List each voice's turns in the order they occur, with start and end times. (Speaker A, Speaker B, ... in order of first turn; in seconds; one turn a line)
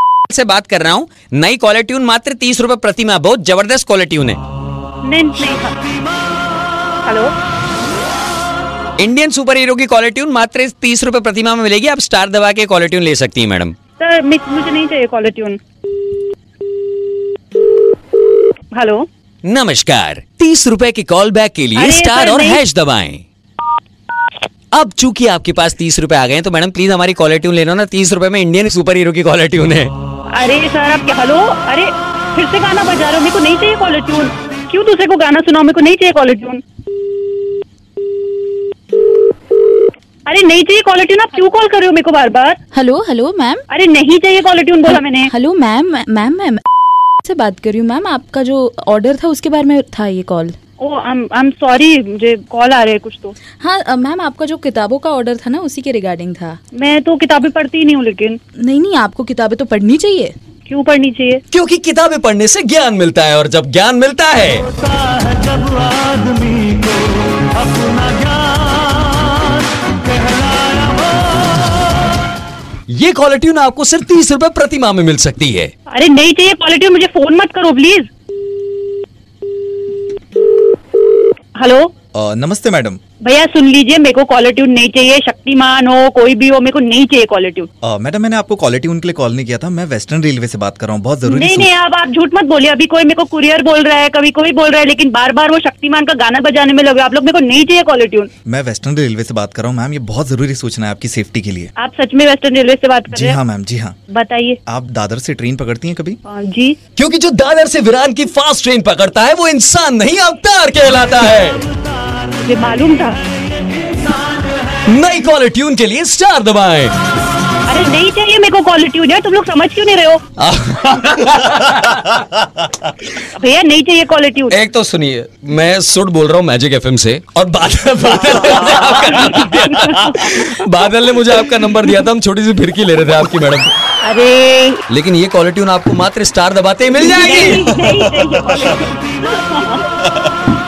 Speaker A: 0.3-4.4
Speaker B: 5.1-5.8
Speaker B: 7.0-7.3
Speaker A: 9.0-13.8
Speaker B: 14.0-15.6
Speaker B: 18.7-19.0
Speaker A: 19.4-23.2
Speaker B: 21.8-22.6
Speaker A: 24.7-29.9
Speaker B: 30.3-36.6
Speaker B: 40.3-42.6
Speaker C: 42.7-43.6
Speaker B: 43.7-45.3
Speaker C: 45.2-46.6
Speaker C: 47.2-50.5
Speaker B: 50.8-53.4
Speaker C: 53.6-56.6
Speaker B: 56.8-58.4
Speaker C: 58.6-60.3
Speaker B: 60.7-61.4
Speaker A: 61.5-64.7
Speaker A: 72.9-75.7
Speaker B: 75.9-78.1
Speaker B: 81.6-81.9
Speaker D: 82.2-83.0
Speaker B: 83.2-87.7
Speaker D: 87.8-91.7
Speaker B: 91.3-98.3
Speaker D: 98.5-101.7
Speaker B: 101.8-103.4
Speaker D: 103.1-104.0
Speaker B: 104.1-104.6
Speaker D: 104.7-106.2
Speaker B: 106.3-106.8
Speaker A: 107.0-111.6
Speaker B: 112.4-113.3
Speaker A: 114.9-116.9
Speaker B: 117.7-120.2
Speaker A: 120.4-122.3
Speaker B: 123.3-124.6
Speaker A: 124.5-133.7
Speaker B: 134.0-134.8
Speaker A: 134.9-137.7
Speaker B: 136.9-140.0